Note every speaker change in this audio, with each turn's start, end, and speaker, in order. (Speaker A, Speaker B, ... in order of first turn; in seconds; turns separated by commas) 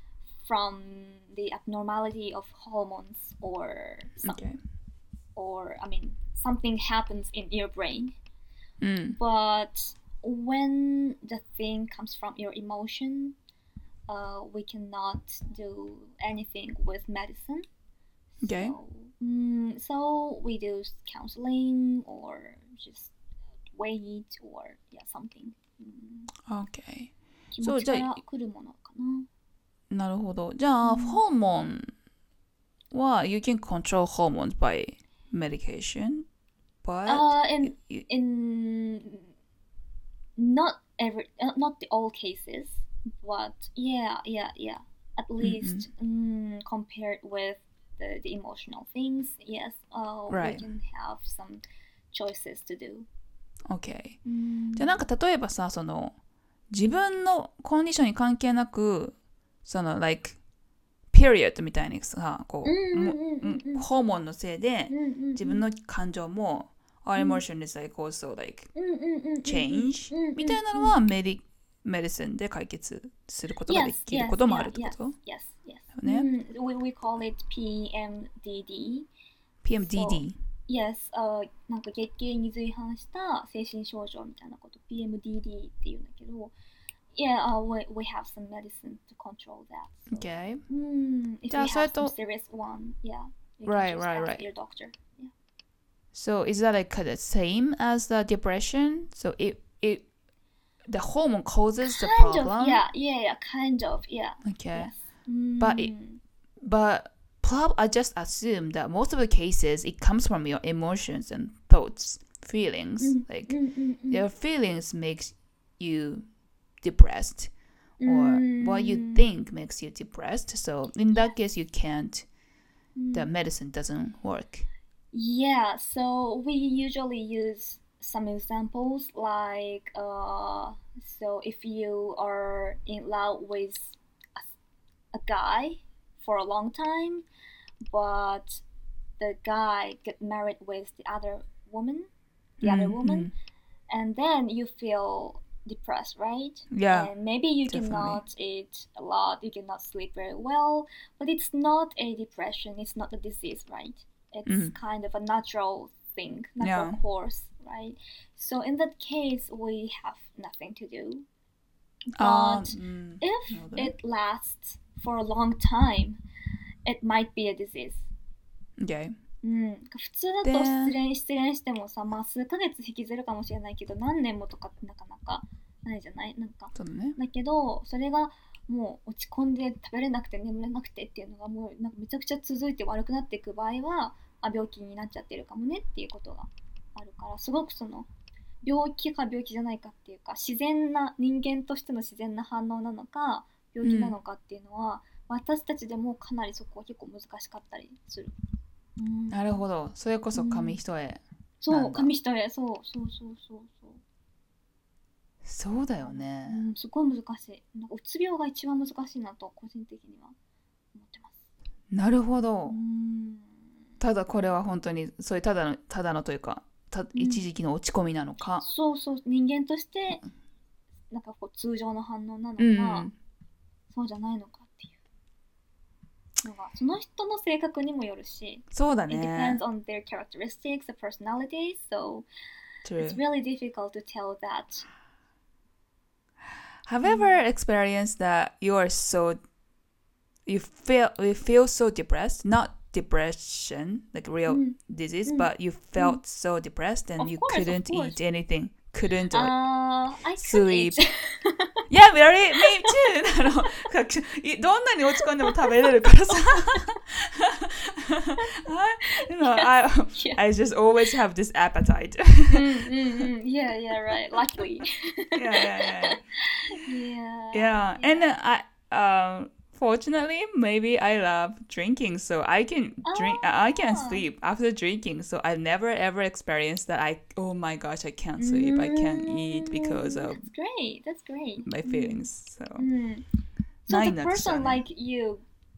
Speaker A: 0.4-4.4, Speaker B: 4.2-4.6, Speaker A: 5.4-8.2, Speaker B: 8.8-9.2, Speaker A: 9.2-13.4, Speaker A: 14.1-17.7, Speaker A: 18.4-23.1, Speaker B: 18.4-18.8, Speaker A: 23.7-26.3, Speaker B: 26.5-28.1, Speaker A: 27.5-29.3, Speaker B: 29.9-31.9, Speaker A: 30.8-31.2, Speaker B: 32.9-36.3, Speaker B: 36.8-38.1, Speaker A: 37.1-39.3, Speaker A: 40.4-53.1, Speaker B: 45.4-45.9, Speaker B: 50.3-50.7, Speaker B: 53.7-54.2, Speaker A: 54.2-55.0, Speaker B: 54.8-56.2, Speaker B: 56.7-60.4, Speaker B: 61.1-68.7, Speaker A: 62.6-63.9, Speaker A: 64.9-65.6, Speaker A: 67.2-67.4, Speaker A: 68.8-71.0, Speaker B: 69.4-75.2, Speaker A: 73.7-79.1, Speaker B: 75.9-76.3, Speaker B: 79.6-80.4, Speaker A: 79.8-86.5, Speaker A: 87.1-95.3, Speaker B: 90.1-90.6, Speaker B: 91.5-92.1, Speaker B: 93.7-94.5, Speaker B: 96.1-100.1, Speaker B: 100.9-102.8, Speaker A: 101.8-106.2, Speaker B: 104.4-104.9, Speaker B: 105.6-105.9, Speaker B: 106.6-113.6, Speaker A: 113.0-114.2, Speaker B: 114.1-116.3, Speaker B: 116.8-117.5, Speaker A: 118.0-119.2, Speaker B: 118.0-122.3, Speaker A: 123.0-123.3, Speaker B: 123.1-124.7, Speaker A: 125.1-134.5, Speaker A: 135.1-137.2, Speaker A: 137.9-138.6, Speaker A: 139.2-142.1, Speaker B: 142.6-143.3, Speaker A: 142.6-143.3, Speaker A: 143.9-161.3, Speaker B: 146.7-147.1, Speaker B: 147.7-148.2, Speaker B: 154.5-154.7, Speaker B: 156.6-157.0, Speaker A: 162.1-166.2, Speaker B: 162.2-163.9, Speaker A: 166.8-168.1, Speaker B: 168.8-169.1, Speaker A: 169.4-188.1, Speaker B: 170.4-170.9, Speaker B: 176.7-177.2, Speaker A: 188.6-198.3, Speaker B: 193.8-194.2, Speaker A: 199.0-199.6, Speaker B: 199.3-202.1, Speaker A: 200.3-200.8, Speaker A: 201.6-204.0, Speaker B: 205.4-206.7, Speaker A: 206.0-210.4, Speaker A: 210.9-211.4, Speaker B: 211.9-212.8, Speaker A: 212.7-213.7, Speaker B: 214.0-218.7, Speaker A: 217.1-217.4, Speaker A: 218.6-220.2, Speaker A: 221.1-223.1, Speaker B: 222.6-223.1, Speaker A: 223.9-225.0, Speaker A: 226.4-232.3, Speaker B: 228.7-229.6, Speaker B: 232.8-233.2, Speaker A: 233.0-234.9, Speaker B: 236.9-239.4, Speaker A: 237.0-237.4, Speaker B: 240.5-249.5, Speaker A: 244.5-246.2, Speaker A: 247.2-248.2, Speaker A: 249.3-251.9, Speaker B: 250.4-251.0, Speaker B: 251.9-263.3, Speaker A: 252.6-253.0, Speaker A: 255.5-256.9, Speaker A: 258.4-260.4, Speaker A: 262.5-268.3, Speaker B: 265.4-266.2, Speaker B: 267.5-280.5, Speaker A: 273.0-274.2, Speaker A: 278.4-282.2, Speaker B: 281.6-282.9, Speaker A: 282.8-283.3, Speaker B: 283.9-284.8, Speaker A: 283.9-285.4